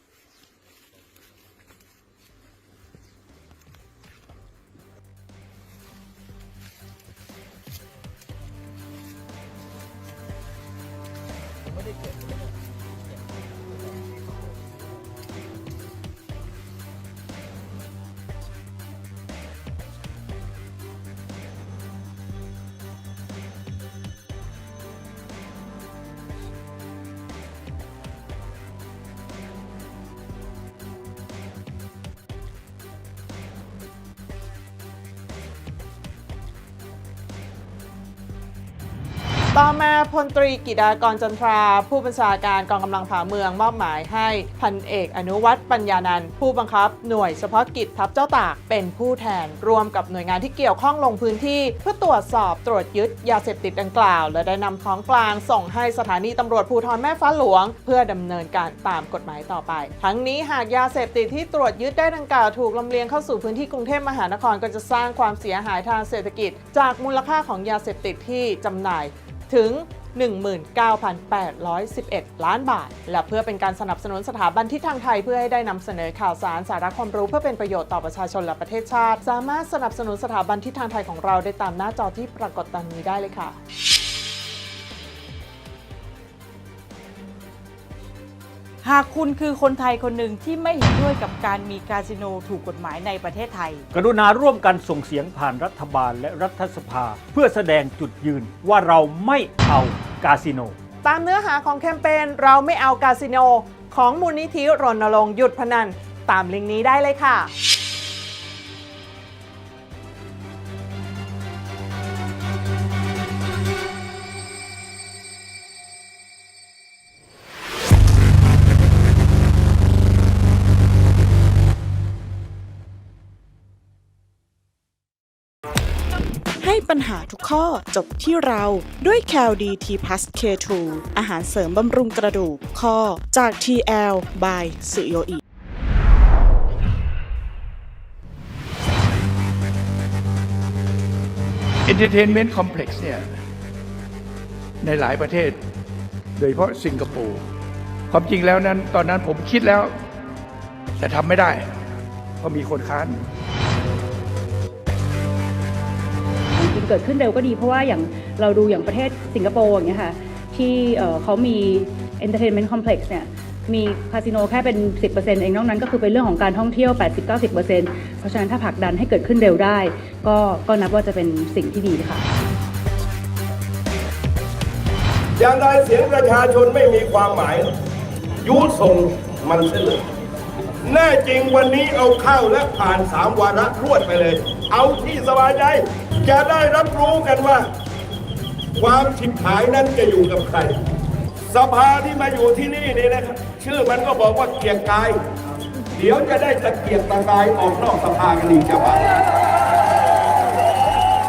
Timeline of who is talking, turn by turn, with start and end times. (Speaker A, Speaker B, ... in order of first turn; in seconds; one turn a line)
Speaker A: 39.5-83.5
Speaker B: 88.8-93.8
Speaker C: 93.9-100.8
Speaker A: 101.0-107.5
Speaker D: 126.6-135.4
Speaker E: 141.8-143.2
Speaker E: 144.8-145.6
Speaker E: 146.4-147.4
Speaker E: 148.1-149.9
Speaker E: 151.0-151.7
Speaker E: 152.4-153.2
Speaker F: 156.5-172.2
Speaker G: 175.4-177.7
Speaker G: 178.4-180.0
Speaker G: 180.8-187.7
Speaker G: 188.8-190.7
Speaker G: 191.5-195.2
Speaker G: 195.9-199.0